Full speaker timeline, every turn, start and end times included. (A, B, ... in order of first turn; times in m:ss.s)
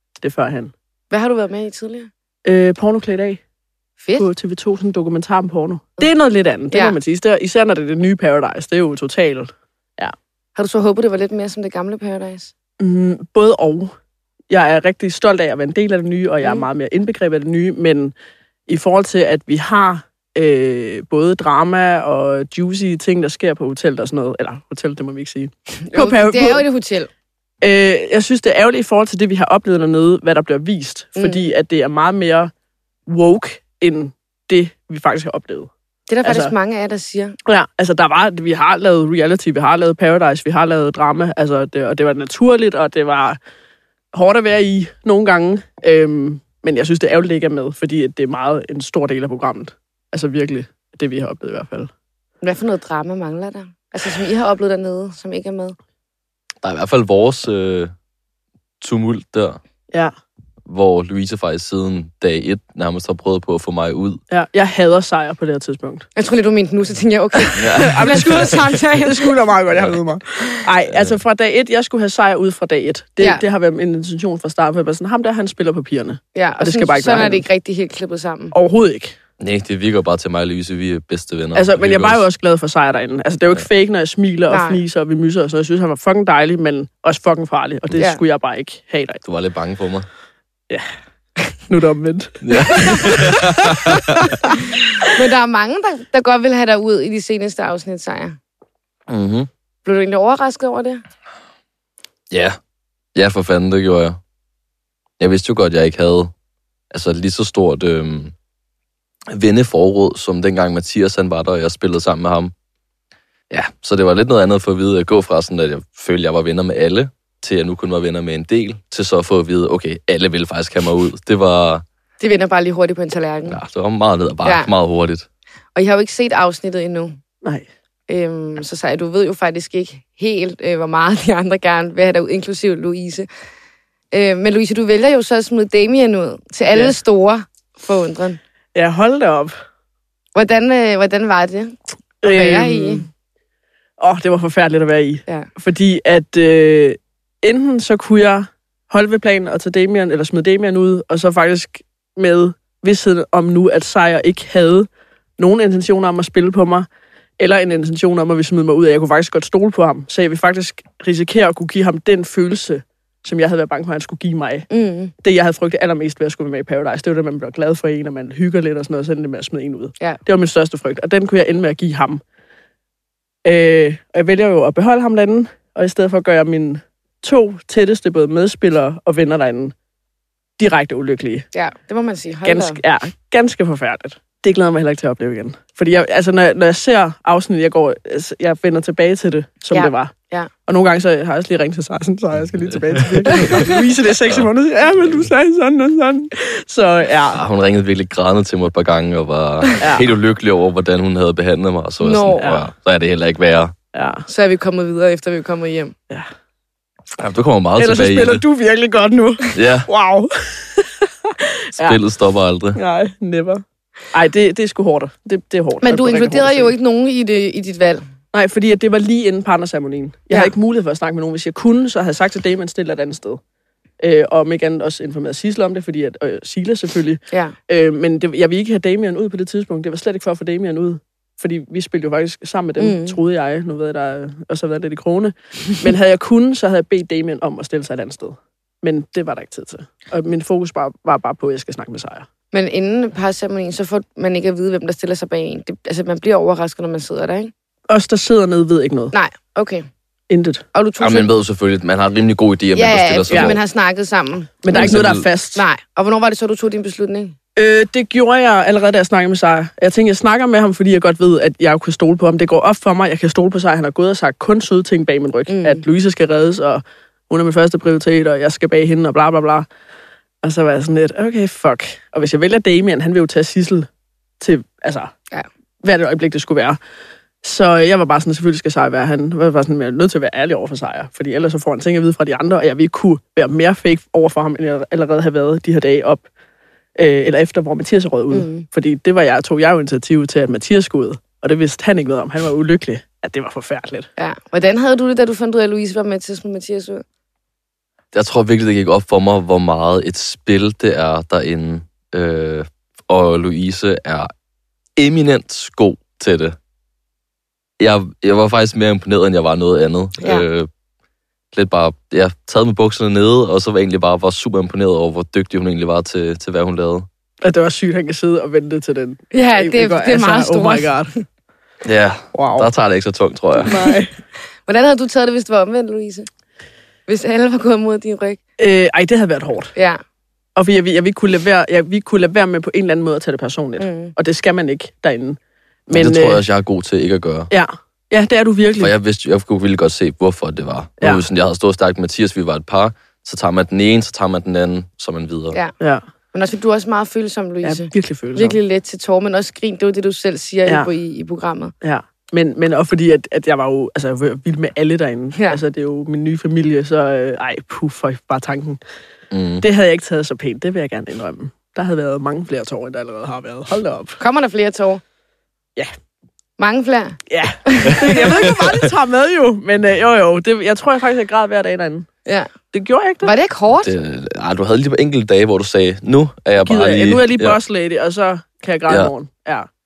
0:00.2-0:00.7 A
0:01.1-0:02.1 B
0:02.4-0:03.4 A
0:04.0-0:04.3 B
0:04.2-0:10.2 A
0:06.7-0:07.0 B
0:10.6-0:12.5 B
0:12.8-0:13.9 A
0:14.5-0:18.1 A
0:18.7-0:26.6 A
0:25.8-0:27.1 B
0:27.6-0:32.5 A
0:31.2-0:31.5 B
0:33.1-0:35.7 A
0:36.1-0:37.4 B
0:36.2-0:36.5 A
0:37.5-0:43.4 A
0:44.1-0:51.9 A
0:52.4-0:55.8 B
0:56.6-0:57.9 C
0:58.8-0:59.6 C
1:00.7-1:04.2 C
1:04.3-1:06.1 A
1:06.2-1:09.3 B
1:07.6-1:08.5 C
1:07.8-1:17.4 A
1:16.4-1:18.6 B
1:18.5-1:19.2 A
1:19.4-1:22.3 C
1:21.6-1:29.2 A
1:24.5-1:24.8 B
1:27.9-1:28.2 B
1:29.2-1:30.1 C
1:31.7-1:34.4 A
1:32.4-1:34.3 C
1:35.0-1:38.4 B
1:39.1-1:39.5 C
1:39.8-1:41.0 B
1:42.3-1:42.6 C
1:43.2-1:44.2 C
1:45.2-1:46.3 C
1:46.9-1:48.3 C
1:49.3-1:52.5 C
1:53.5-2:01.8 C
2:02.2-2:03.6 B
2:03.5-2:05.3 C
2:04.4-2:04.7 B
2:05.8-2:07.2 B
2:08.1-2:13.3 B
2:14.1-2:18.4 B
2:18.8-2:19.6 A
2:20.4-2:23.1 B
2:22.2-2:23.1 A
2:24.0-2:36.9 A
2:37.4-2:44.7 A
2:44.7-2:45.1 B
2:45.2-2:52.2 A
2:53.4-2:59.7 A
3:00.6-3:01.5 A
3:01.5-3:02.8 B
3:02.4-3:10.1 A
3:09.7-3:10.5 B
3:10.7-3:17.4 A
3:13.0-3:13.5 C
3:17.3-3:23.8 C
3:19.8-3:20.1 A
3:22.0-3:22.5 B
3:22.4-3:22.7 A
3:23.9-3:24.3 A
3:24.3-3:25.9 B
3:27.2-3:28.4 C
3:27.8-3:32.0 A
3:29.6-3:29.9 C
3:31.8-3:32.8 C
3:32.7-3:36.7 A
3:35.8-3:38.1 B
3:38.3-3:43.4 A
3:44.0-4:02.3 A
3:52.8-3:53.2 B
4:02.5-4:07.5 B
4:07.9-4:09.1 A
4:09.1-4:09.9 B
4:10.3-4:10.6 A
4:10.7-4:11.3 B
4:11.0-4:13.6 C
4:12.8-4:15.0 B
4:13.3-4:13.6 A
4:14.6-4:15.6 A
4:14.7-4:15.3 C
4:15.5-4:17.4 B
4:17.6-4:29.7 A
4:25.5-4:25.8 B
4:30.4-4:33.9 A
4:34.4-4:35.1 A
4:35.8-4:36.8 A
4:37.4-4:46.3 A
4:47.0-4:54.1 A
4:48.3-4:48.6 B
4:54.2-4:57.0 B
4:58.1-5:04.3 C
5:05.0-5:06.6 C
5:07.8-5:10.7 C
5:11.5-5:17.1 C
5:17.4-5:21.1 A
5:19.3-5:21.0 B
5:21.8-5:23.8 C
5:22.3-5:22.7 A
5:23.6-5:24.1 A
5:24.7-5:26.3 B
5:27.1-5:28.4 B
5:28.6-5:29.7 A
5:29.8-5:30.0 B
5:30.6-5:36.4 A
5:33.8-5:34.1 B
5:35.9-5:37.5 C
5:37.5-5:38.9 A
5:38.8-5:45.6 C
5:46.3-5:51.7 B
5:47.6-5:48.6 A
5:51.8-5:58.8 A
5:59.3-5:59.6 C
5:59.6-6:04.2 A
6:04.2-6:05.0 B
6:06.6-6:08.3 B
6:07.3-6:12.1 A
6:12.3-6:12.5 B
6:12.7-6:13.3 A
6:13.2-6:13.9 B
6:13.8-6:17.6 C
6:16.6-6:19.7 A